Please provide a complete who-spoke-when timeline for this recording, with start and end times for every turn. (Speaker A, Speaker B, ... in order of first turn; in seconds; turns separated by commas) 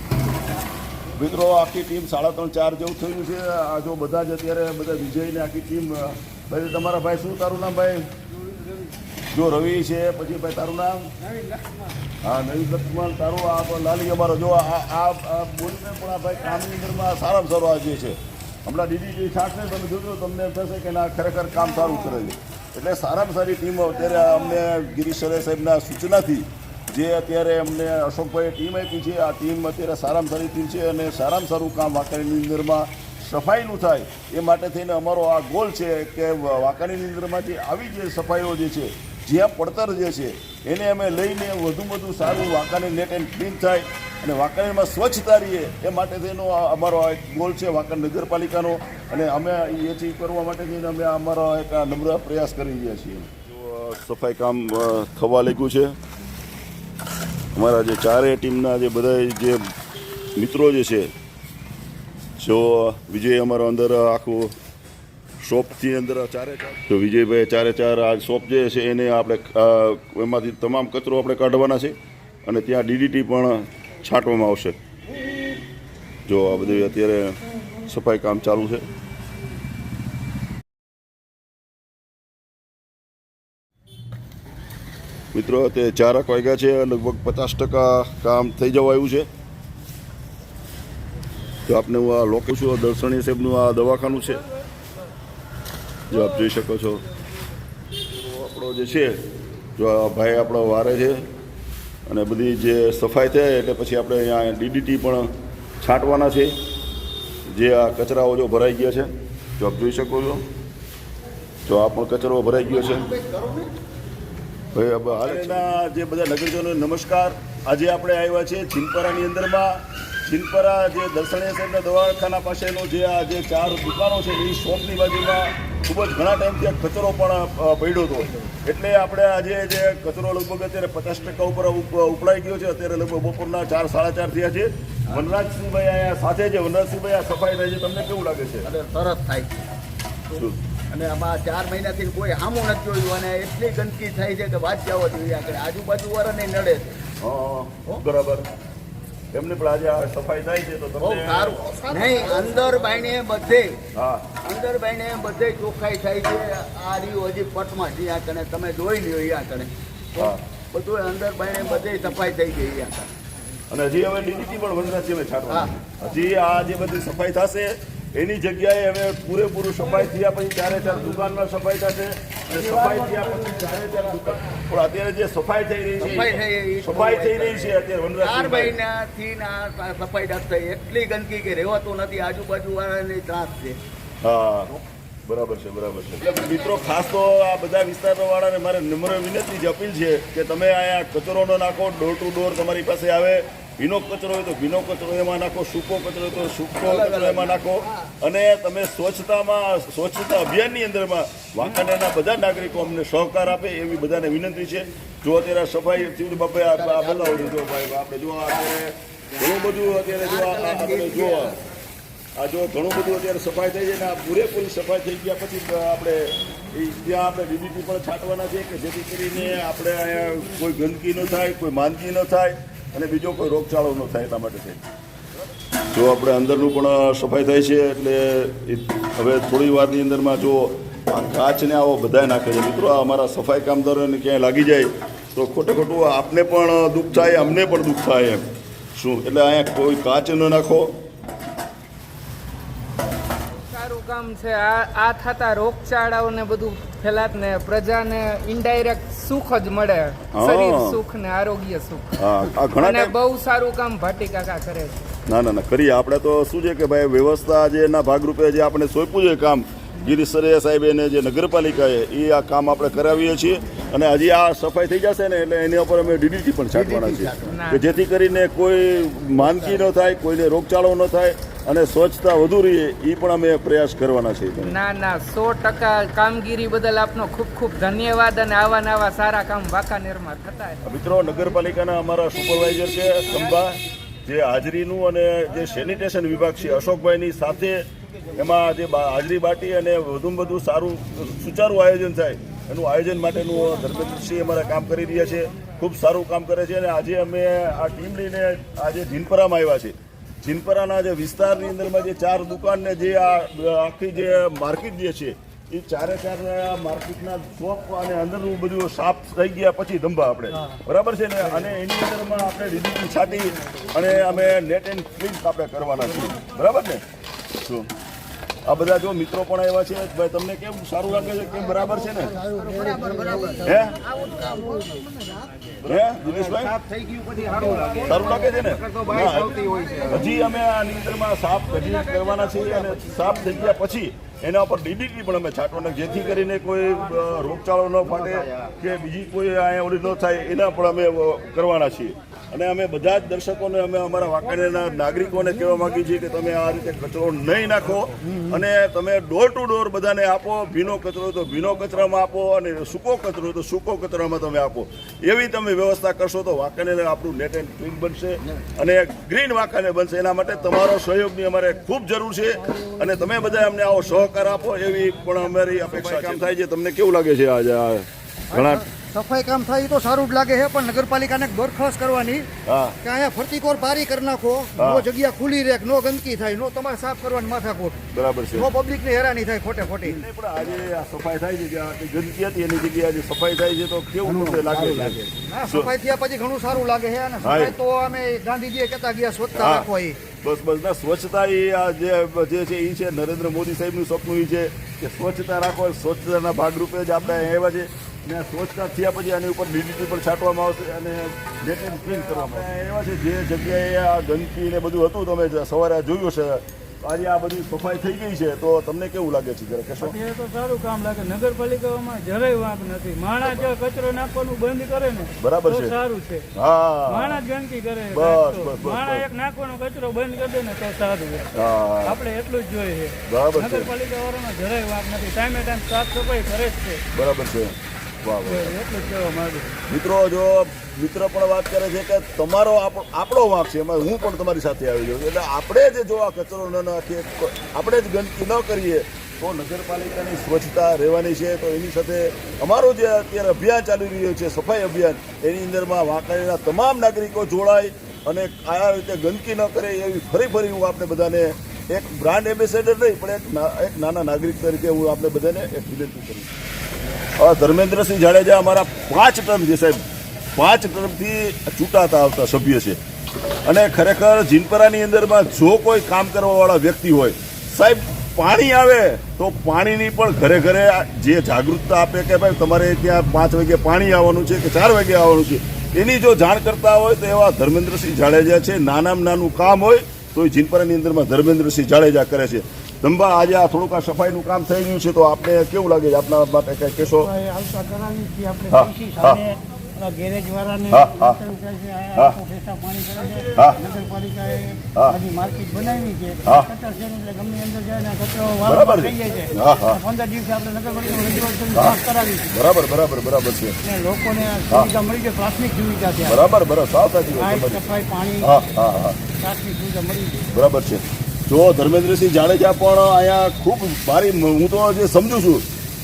Speaker A: 1.1-8.1, Speaker A: 9.3-11.1, Speaker A: 12.2-56.0, Speaker A: 57.5-59.6, Speaker A: 60.4-61.1, Speaker A: 62.4-64.5, Speaker A: 65.4-74.8, Speaker A: 76.3-78.8, Speaker A: 85.3-89.3, Speaker A: 91.7-94.4, Speaker A: 96.1-97.0, Speaker A: 98.1-99.2, Speaker A: 99.8-101.2, Speaker A: 102.1-105.3, Speaker A: 105.8-106.5, Speaker A: 107.5-110.4, Speaker A: 111.7-113.1, Speaker B: 113.0-113.6, Speaker A: 114.7-138.7, Speaker B: 138.6-139.7, Speaker B: 140.9-146.9, Speaker A: 147.2-148.4, Speaker A: 149.3-151.6, Speaker B: 151.0-153.8, Speaker A: 153.9-154.3, Speaker B: 154.4-163.1, Speaker A: 163.7-178.8, Speaker B: 172.5-173.0, Speaker B: 176.0-183.8, Speaker A: 184.2-184.7, Speaker A: 185.2-211.5, Speaker B: 196.8-198.1, Speaker B: 206.8-207.6, Speaker B: 210.0-211.6, Speaker A: 212.3-224.9, Speaker A: 225.9-238.4, Speaker A: 238.9-240.9, Speaker C: 243.7-252.2, Speaker A: 250.3-251.0, Speaker A: 252.2-253.1, Speaker C: 252.8-255.0, Speaker A: 255.2-274.8, Speaker B: 266.7-267.6, Speaker C: 267.5-267.9, Speaker B: 269.4-269.8, Speaker C: 274.6-280.8, Speaker A: 280.8-287.8, Speaker A: 288.4-317.0, Speaker A: 317.6-317.9, Speaker A: 318.6-322.4, Speaker B: 322.4-324.9, Speaker D: 322.9-323.5, Speaker A: 323.6-324.0, Speaker A: 325.8-326.8, Speaker B: 327.1-330.2, Speaker D: 327.6-327.9, Speaker A: 327.9-368.9, Speaker B: 338.2-338.6, Speaker E: 368.5-372.5, Speaker A: 372.6-373.0, Speaker E: 373.0-378.0, Speaker A: 374.8-375.1, Speaker A: 378.1-378.7, Speaker E: 378.5-380.2, Speaker A: 380.0-385.9, Speaker B: 384.2-385.3, Speaker E: 385.5-390.2, Speaker A: 387.4-387.7, Speaker A: 389.5-410.2, Speaker D: 410.0-416.4, Speaker A: 415.4-416.0, Speaker A: 416.5-417.4, Speaker D: 417.1-421.5, Speaker A: 418.1-419.2, Speaker A: 421.5-422.2, Speaker D: 422.0-427.0, Speaker A: 423.3-423.9, Speaker A: 427.1-428.7, Speaker D: 428.4-429.7, Speaker A: 429.9-456.5, Speaker A: 457.4-460.0, Speaker A: 460.6-463.0, Speaker A: 463.6-487.3, Speaker F: 487.3-493.5, Speaker D: 487.6-488.5, Speaker A: 488.7-489.4, Speaker D: 490.0-490.7, Speaker A: 490.9-491.4, Speaker D: 491.6-493.2, Speaker A: 493.5-493.8, Speaker D: 494.0-494.8, Speaker F: 494.0-494.8, Speaker A: 494.9-495.2, Speaker F: 495.3-499.3, Speaker D: 495.5-496.4, Speaker A: 496.4-496.7, Speaker D: 496.9-499.5, Speaker A: 498.6-500.0, Speaker F: 500.0-502.3, Speaker D: 500.2-501.2, Speaker A: 501.7-503.8, Speaker F: 503.9-506.3, Speaker D: 504.0-506.1, Speaker A: 504.7-504.9, Speaker A: 506.2-507.8, Speaker F: 507.4-508.4, Speaker D: 507.4-508.4, Speaker A: 508.4-509.2, Speaker F: 509.4-510.4, Speaker D: 509.6-510.3, Speaker A: 510.5-515.6